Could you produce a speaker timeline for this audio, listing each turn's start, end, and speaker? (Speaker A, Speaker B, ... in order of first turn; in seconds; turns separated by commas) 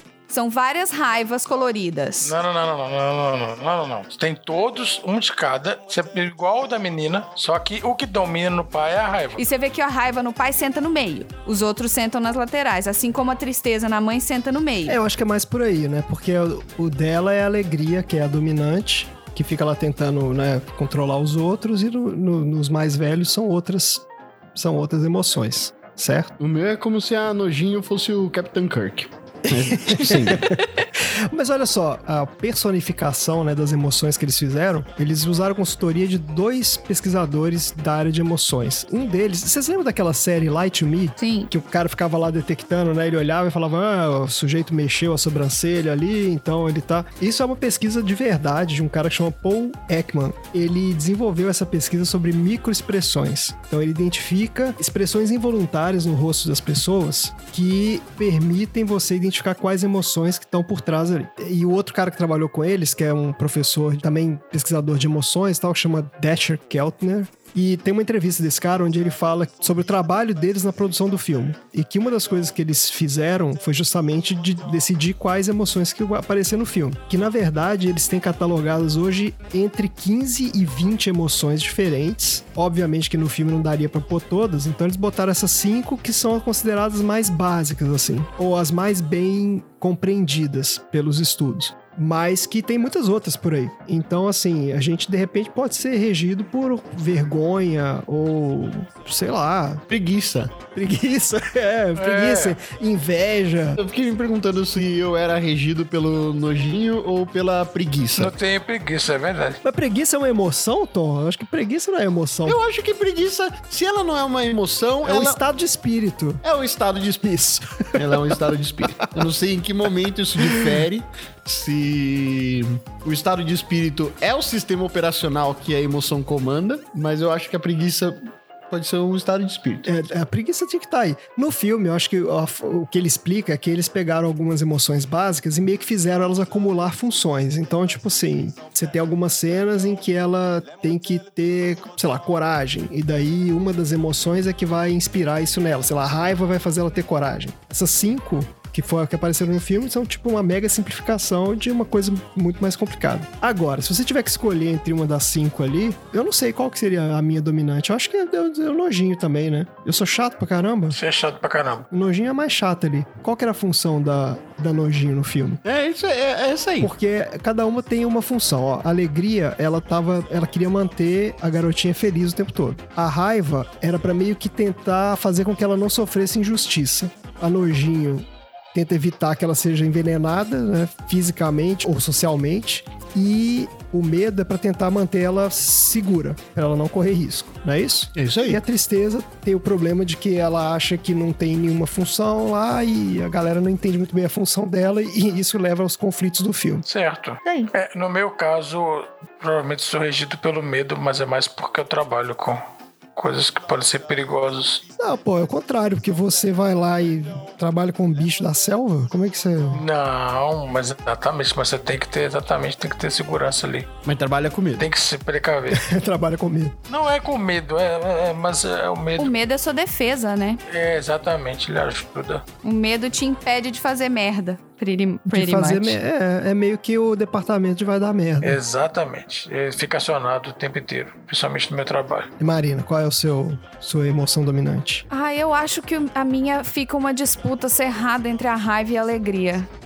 Speaker A: 0.3-2.3, Speaker B: 2.2-9.4, Speaker A: 9.4-15.0, Speaker C: 14.9-26.3, Speaker D: 26.4-30.6, Speaker C: 29.5-99.8, Speaker A: 41.2-41.5, Speaker D: 99.9-100.6, Speaker C: 100.7-103.8, Speaker B: 102.0-102.6, Speaker D: 103.8-108.3, Speaker B: 108.2-109.6, Speaker C: 109.6-112.6, Speaker D: 112.5-115.4, Speaker C: 115.0-116.4, Speaker D: 116.4-117.3, Speaker C: 117.2-118.4, Speaker D: 118.0-129.9, Speaker C: 119.0-119.3, Speaker C: 120.4-120.8, Speaker C: 129.8-161.0, Speaker B: 160.9-161.9, Speaker C: 161.9-165.6, Speaker D: 165.6-166.9, Speaker C: 166.8-196.9, Speaker D: 188.2-188.6, Speaker B: 196.9-202.6, Speaker B: 203.2-204.8, Speaker C: 205.0-209.8, Speaker B: 209.7-213.9, Speaker D: 214.1-214.9, Speaker B: 214.8-215.8, Speaker C: 215.7-216.8, Speaker B: 216.9-219.3, Speaker A: 219.2-220.6, Speaker B: 220.7-222.4, Speaker A: 222.6-226.0, Speaker C: 225.3-228.6, Speaker B: 228.4-232.3, Speaker C: 232.4-235.1, Speaker A: 235.1-239.7